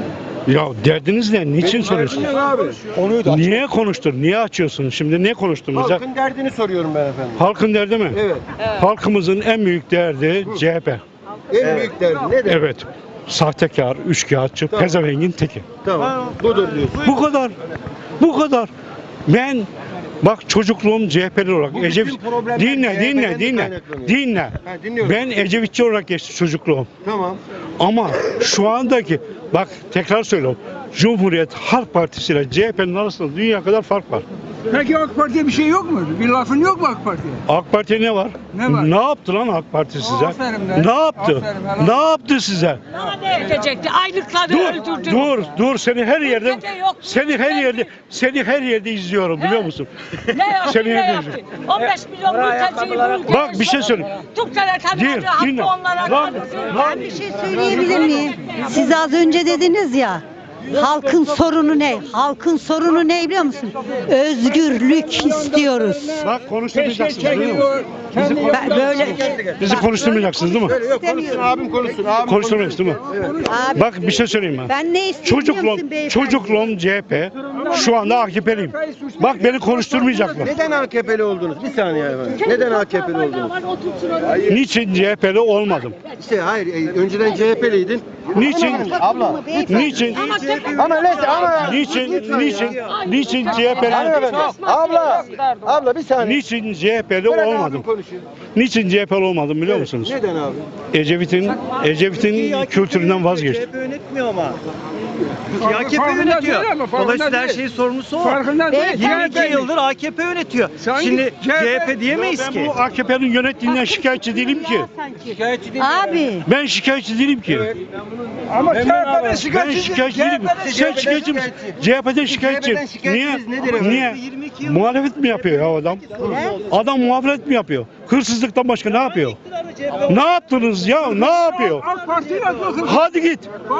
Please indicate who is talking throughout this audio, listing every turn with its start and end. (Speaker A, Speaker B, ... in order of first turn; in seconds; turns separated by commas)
Speaker A: 0.5-2.3, Speaker B: 1.6-2.8, Speaker C: 3.0-3.6, Speaker A: 3.2-6.0, Speaker B: 5.7-7.5, Speaker A: 7.4-8.2, Speaker B: 8.1-8.4, Speaker A: 8.8-11.0, Speaker B: 11.5-12.6, Speaker A: 12.5-15.7, Speaker B: 15.8-17.2, Speaker A: 17.1-17.6, Speaker A: 18.2-18.7, Speaker A: 19.3-19.7, Speaker A: 20.2-26.9, Speaker B: 21.7-25.2, Speaker B: 27.0-27.4, Speaker A: 27.8-34.2, Speaker D: 34.7-37.4, Speaker A: 37.5-42.8, Speaker D: 38.5-38.9, Speaker D: 40.0-42.0, Speaker E: 42.9-45.5, Speaker A: 44.4-49.9, Speaker E: 46.1-47.9, Speaker E: 49.4-49.7, Speaker E: 50.3-56.9, Speaker A: 50.6-51.4, Speaker A: 53.3-54.1, Speaker A: 54.9-57.1, Speaker F: 56.7-66.3, Speaker E: 57.9-58.6, Speaker A: 66.2-67.7, Speaker D: 66.7-69.3, Speaker B: 68.2-70.0, Speaker F: 68.5-69.2, Speaker A: 69.6-70.8, Speaker B: 70.5-73.4, Speaker F: 70.7-71.4, Speaker A: 72.3-73.0, Speaker F: 73.5-73.9, Speaker A: 73.7-74.7, Speaker F: 74.7-76.7, Speaker A: 75.2-80.5, Speaker D: 77.6-80.4, Speaker B: 80.4-83.6, Speaker E: 84.0-84.4, Speaker A: 84.5-86.0, Speaker B: 86.2-92.7, Speaker A: 88.3-89.0, Speaker F: 89.0-90.6, Speaker A: 89.7-90.2, Speaker E: 90.2-95.0, Speaker A: 91.5-94.4, Speaker B: 93.8-96.4, Speaker A: 96.2-97.9, Speaker B: 97.3-98.2, Speaker A: 98.5-100.2, Speaker B: 99.7-100.7, Speaker A: 100.9-103.6, Speaker C: 102.2-104.6, Speaker D: 105.5-107.6, Speaker C: 105.5-112.7, Speaker D: 108.2-109.7, Speaker F: 108.7-109.2, Speaker D: 110.8-112.2, Speaker A: 112.2-114.9, Speaker F: 113.7-116.5, Speaker A: 116.5-117.7, Speaker D: 118.5-120.7, Speaker B: 118.7-119.4, Speaker A: 119.4-126.1, Speaker B: 120.6-124.2, Speaker A: 126.7-129.4, Speaker A: 130.1-131.9, Speaker D: 131.3-133.0, Speaker A: 132.8-133.5